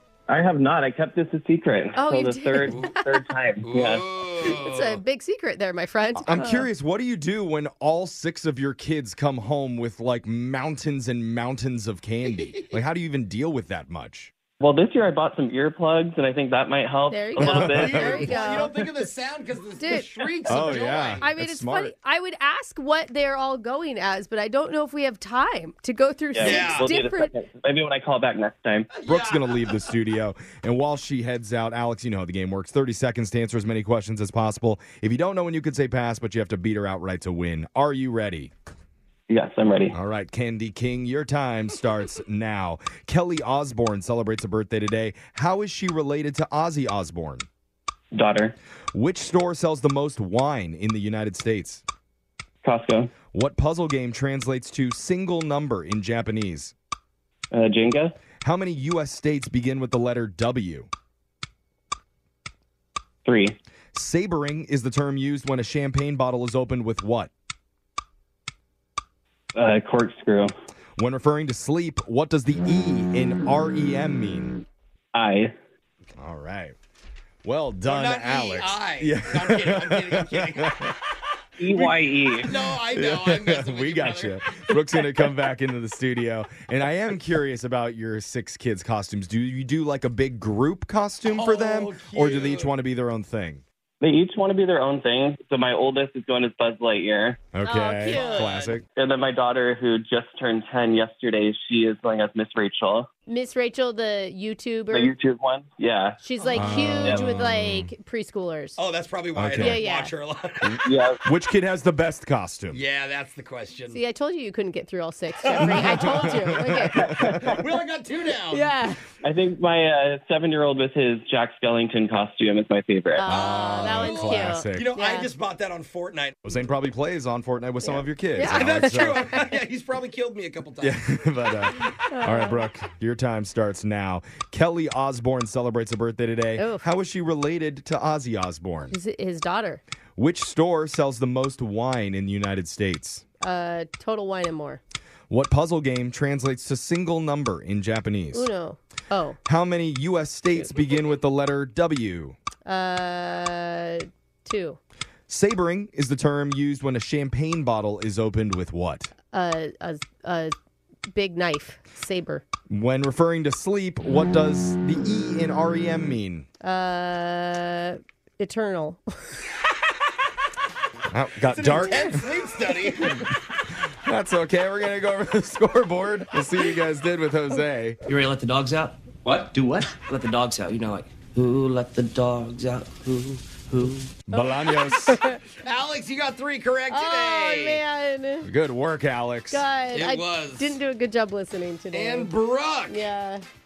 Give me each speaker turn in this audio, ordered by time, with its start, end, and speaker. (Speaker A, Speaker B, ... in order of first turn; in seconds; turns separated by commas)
Speaker A: 0.3-4.1, Speaker B: 1.9-2.9, Speaker C: 2.7-2.9, Speaker C: 3.6-5.0, Speaker B: 4.4-6.7, Speaker D: 6.2-14.3, Speaker A: 14.6-18.8, Speaker B: 17.1-18.7, Speaker D: 17.4-18.3, Speaker C: 17.7-21.2, Speaker B: 19.8-27.3, Speaker D: 20.5-21.9, Speaker A: 26.3-28.9, Speaker C: 26.4-26.9, Speaker C: 28.9-29.9, Speaker D: 29.1-38.5, Speaker A: 39.3-39.9, Speaker D: 39.9-47.5, Speaker A: 48.1-48.5, Speaker D: 48.9-51.8, Speaker A: 52.6-53.1, Speaker D: 53.3-56.7, Speaker A: 57.5-58.1, Speaker D: 58.4-60.9, Speaker A: 63.2-63.6, Speaker D: 63.9-67.3, Speaker A: 69.5-70.5, Speaker D: 71.0-74.6, Speaker A: 75.1-75.5, Speaker D: 76.2-76.7, Speaker D: 77.4-80.9, Speaker C: 77.8-80.8, Speaker A: 81.6-82.5, Speaker C: 81.6-84.4, Speaker D: 82.5-93.6, Speaker C: 91.2-92.7, Speaker A: 94.0-97.4, Speaker D: 97.5-98.8, Speaker B: 97.6-98.5, Speaker C: 98.0-98.8, Speaker A: 99.0-103.1, Speaker B: 103.3-105.1, Speaker A: 104.9-106.2, Speaker B: 106.2-108.8, Speaker C: 106.4-106.7, Speaker D: 106.5-107.9, Speaker A: 107.0-107.3, Speaker C: 108.8-110.8, Speaker D: 109.3-109.8, Speaker B: 109.6-110.1, Speaker D: 110.6-112.8, Speaker A: 110.8-111.2, Speaker C: 112.7-114.0, Speaker B: 113.9-117.1, Speaker C: 115.5-118.8, Speaker D: 115.6-117.5, Speaker A: 117.0-117.5, Speaker B: 118.5-119.0, Speaker A: 119.2-123.3, Speaker B: 123.1-125.3, Speaker D: 123.2-124.9, Speaker C: 123.3-126.4, Speaker D: 126.4-129.3, Speaker B: 127.8-129.4, Speaker C: 128.5-131.0, Speaker D: 130.8-139.0, Speaker B: 132.1-132.6, Speaker B: 136.6-136.9, Speaker B: 138.9-139.8, Speaker D: 140.2-143.2, Speaker B: 143.4-144.8, Speaker D: 145.3-148.5, Speaker B: 148.3-149.4, Speaker D: 149.4-152.3, Speaker B: 152.7-154.8, Speaker D: 155.3-159.1, Speaker B: 159.3-160.5, Speaker B: 161.1-162.4, Speaker D: 162.7-166.5, Speaker B: 166.6-169.0, Speaker D: 171.1-172.3, Speaker C: 171.4-173.2, Speaker D: 174.0-178.0, Speaker E: 178.1-184.1, Speaker D: 184.3-185.2, Speaker B: 184.3-185.4, Speaker C: 185.6-187.8, Speaker B: 186.9-188.5, Speaker D: 188.4-189.7, Speaker B: 189.5-192.3, Speaker C: 189.9-190.8, Speaker C: 191.9-193.1, Speaker B: 192.9-193.4